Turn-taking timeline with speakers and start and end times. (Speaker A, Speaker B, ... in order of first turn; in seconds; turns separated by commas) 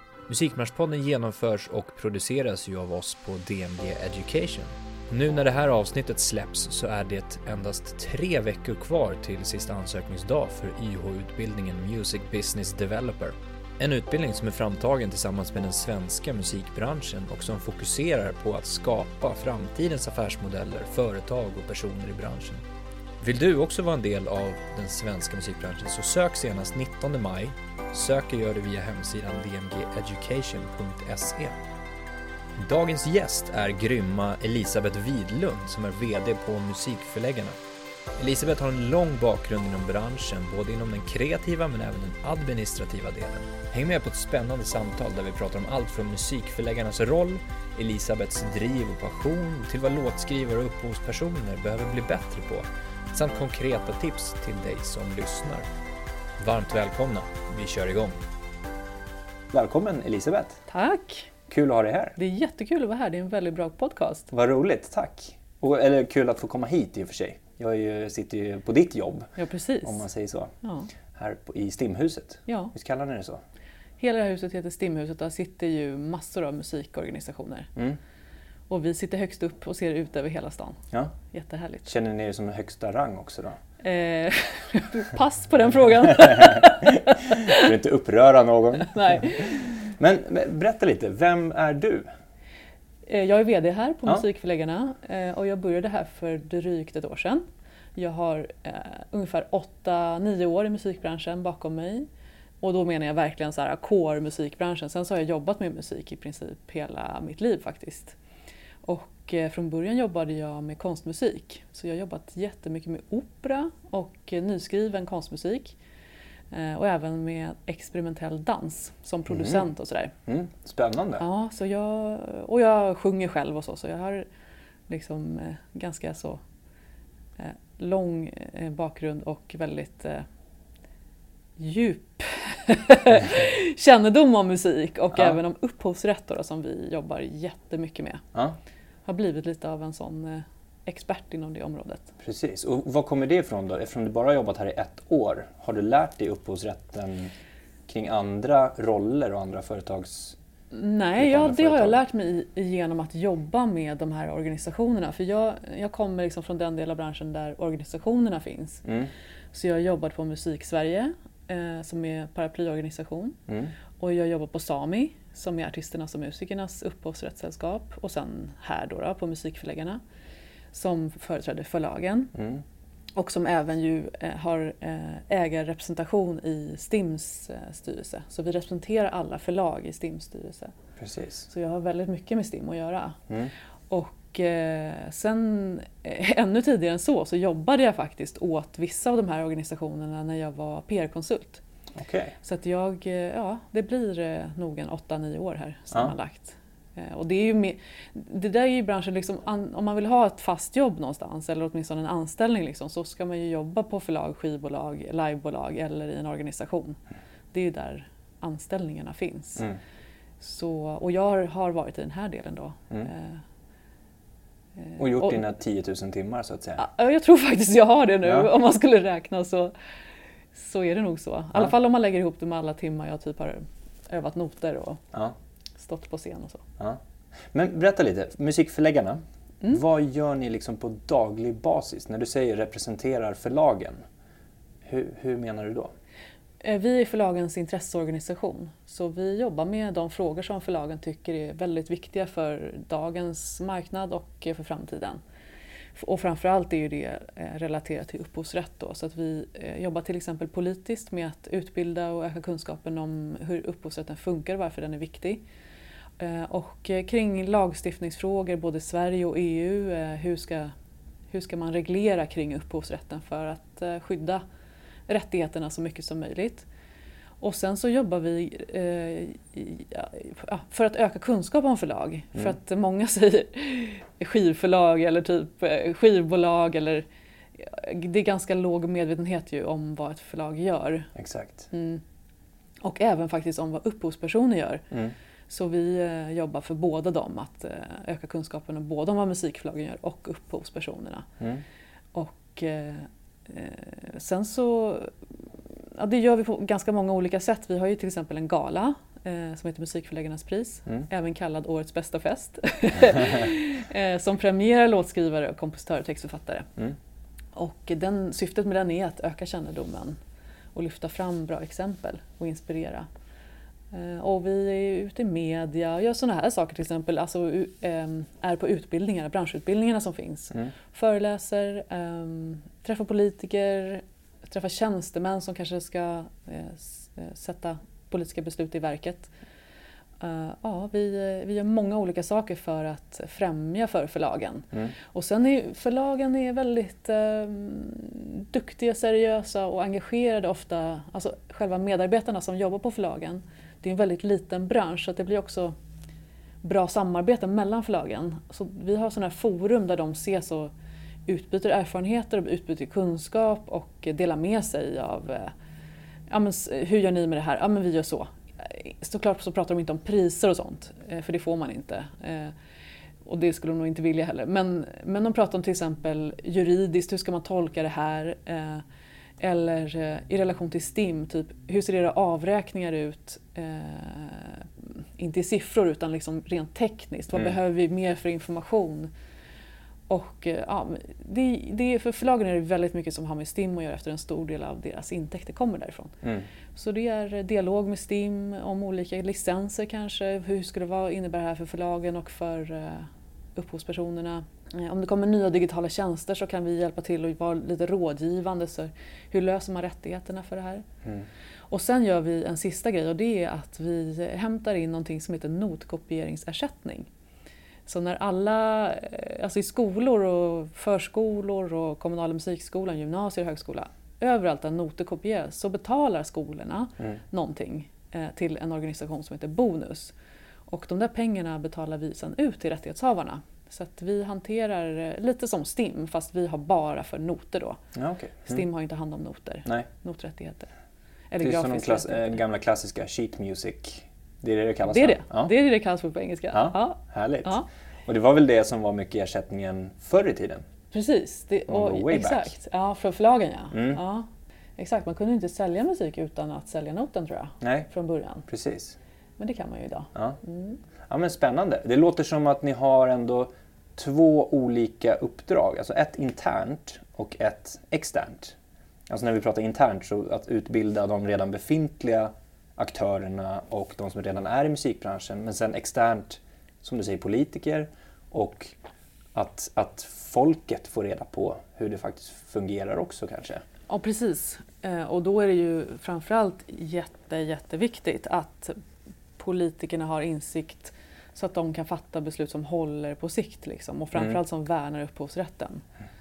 Speaker A: 0.3-22.6, Speaker A: 23.2-31.6, Speaker A: 32.6-37.6, Speaker A: 38.2-55.7, Speaker A: 56.4-58.2, Speaker A: 59.5-60.6, Speaker B: 60.7-61.3, Speaker A: 61.5-62.2, Speaker B: 62.2-64.3, Speaker A: 64.3-69.3, Speaker B: 69.4-70.0, Speaker A: 69.8-70.5, Speaker B: 70.6-70.9, Speaker A: 71.1-73.4, Speaker B: 72.5-72.7, Speaker B: 74.0-77.7, Speaker B: 78.7-81.9, Speaker A: 81.9-83.6, Speaker B: 83.8-87.7, Speaker A: 86.2-92.1, Speaker B: 88.8-89.9, Speaker B: 93.1-97.4, Speaker B: 98.0-102.1, Speaker B: 102.6-108.2, Speaker B: 108.8-115.8, Speaker B: 116.5-120.1, Speaker A: 119.3-119.7, Speaker A: 120.3-121.2, Speaker B: 121.2-124.3, Speaker B: 124.9-126.4, Speaker B: 127.4-130.2, Speaker B: 131.6-138.2, Speaker B: 139.1-142.1, Speaker A: 142.2-147.3, Speaker A: 147.9-150.4, Speaker B: 150.7-158.8, Speaker A: 151.2-152.0, Speaker A: 158.8-159.1, Speaker B: 159.5-163.4, Speaker A: 163.5-163.7, Speaker B: 164.0-170.0, Speaker B: 170.7-172.3, Speaker A: 172.3-172.6, Speaker B: 173.2-180.7, Speaker A: 181.0-181.5, Speaker B: 181.5-183.2, Speaker B: 183.9-191.6, Speaker A: 191.9-192.3, Speaker B: 192.4-207.0, Speaker B: 207.5-209.7, Speaker B: 210.4-213.4, Speaker B: 214.8-215.4, Speaker A: 215.0-216.8, Speaker B: 216.8-219.7, Speaker A: 218.2-218.5, Speaker B: 220.5-225.0, Speaker B: 225.8-226.7, Speaker A: 226.8-234.0, Speaker A: 234.8-235.9, Speaker B: 236.6-245.2, Speaker B: 246.0-255.4, Speaker B: 256.2-260.7, Speaker B: 261.3-264.4, Speaker B: 265.1-266.7, Speaker B: 267.4-277.1, Speaker B: 277.6-281.1, Speaker A: 281.1-281.7, Speaker B: 281.7-282.0, Speaker B: 282.8-284.9, Speaker B: 285.5-291.3, Speaker B: 292.1-295.1, Speaker B: 296.0-306.7, Speaker B: 307.6-310.2, Speaker B: 310.8-313.1, Speaker B: 313.9-329.3, Speaker B: 330.2-345.8, Speaker B: 346.6-350.7, Speaker B: 351.3-355.5, Speaker B: 356.3-362.5, Speaker B: 363.2-368.8, Speaker B: 369.4-379.1, Speaker B: 380.1-386.2, Speaker B: 386.8-400.9, Speaker B: 401.7-407.1, Speaker B: 407.9-420.1, Speaker B: 420.7-427.8, Speaker A: 427.9-428.6, Speaker B: 428.5-430.7, Speaker B: 431.3-432.4, Speaker A: 431.4-435.5, Speaker B: 434.9-437.7, Speaker A: 436.5-440.6, Speaker B: 440.9-448.5, Speaker A: 441.7-442.5, Speaker A: 443.7-444.0, Speaker A: 447.6-447.9, Speaker A: 448.5-449.0, Speaker B: 449.4-450.8, Speaker A: 451.1-458.6, Speaker A: 459.1-468.8, Speaker A: 469.4-473.6, Speaker B: 473.9-478.8, Speaker B: 479.4-485.8